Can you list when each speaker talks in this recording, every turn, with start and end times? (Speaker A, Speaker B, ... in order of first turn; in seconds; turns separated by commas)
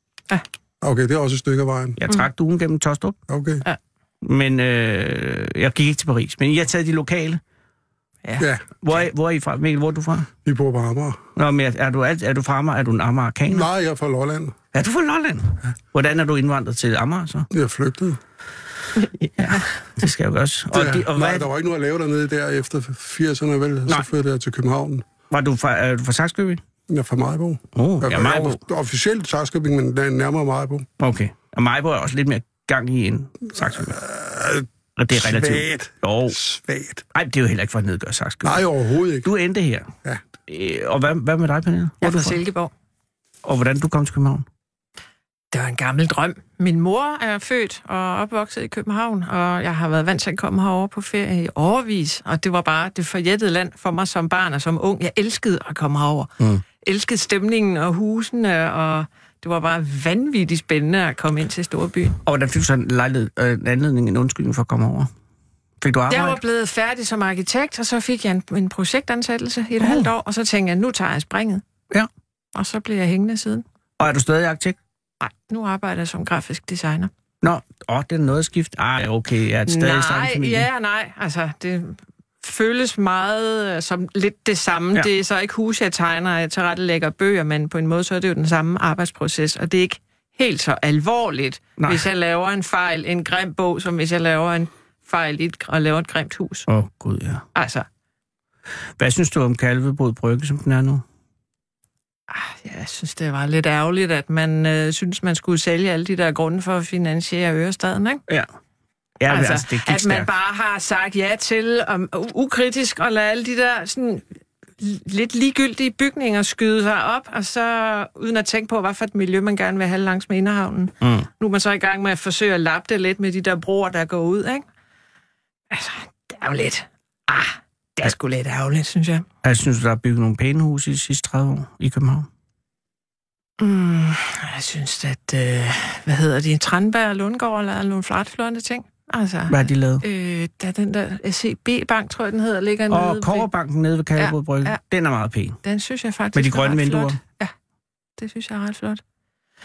Speaker A: 0.8-2.0, Speaker B: 2.0-3.2, Speaker A: 3.3-3.6, Speaker B: 4.2-7.4, Speaker A: 8.4-8.6, Speaker B: 8.8-10.3, Speaker A: 10.4-11.2, Speaker B: 11.3-13.7, Speaker A: 13.5-14.6, Speaker B: 14.7-17.5, Speaker A: 17.5-18.2, Speaker C: 19.0-19.7, Speaker B: 19.4-21.5, Speaker A: 20.7-25.1, Speaker B: 25.3-26.6, Speaker A: 26.9-30.9, Speaker B: 27.7-28.6, Speaker B: 31.0-34.0, Speaker A: 33.8-37.0, Speaker B: 35.0-36.4, Speaker B: 37.1-38.6, Speaker A: 38.4-39.3, Speaker B: 39.2-39.9, Speaker B: 40.5-42.4, Speaker C: 42.0-42.7, Speaker B: 43.4-44.5, Speaker C: 45.5-62.1, Speaker B: 62.2-65.1, Speaker B: 65.8-66.4, Speaker C: 66.1-71.6, Speaker B: 69.8-70.1, Speaker C: 72.5-73.6, Speaker B: 74.0-74.8, Speaker C: 75.2-77.1, Speaker B: 77.4-80.7, Speaker C: 79.7-96.7, Speaker B: 91.8-92.0, Speaker B: 96.7-97.4, Speaker C: 97.5-97.8, Speaker B: 99.0-101.0, Speaker C: 102.3-108.2, Speaker B: 109.2-110.3, Speaker C: 109.3-114.2, Speaker C: 114.8-124.6, Speaker B: 121.0-121.3, Speaker C: 125.7-129.2, Speaker B: 129.4-132.3, Speaker C: 133.6-143.5, Speaker B: 139.5-140.0, Speaker B: 142.9-145.6, Speaker C: 144.2-144.8, Speaker C: 145.6-147.5, Speaker B: 146.3-147.2, Speaker C: 148.2-149.0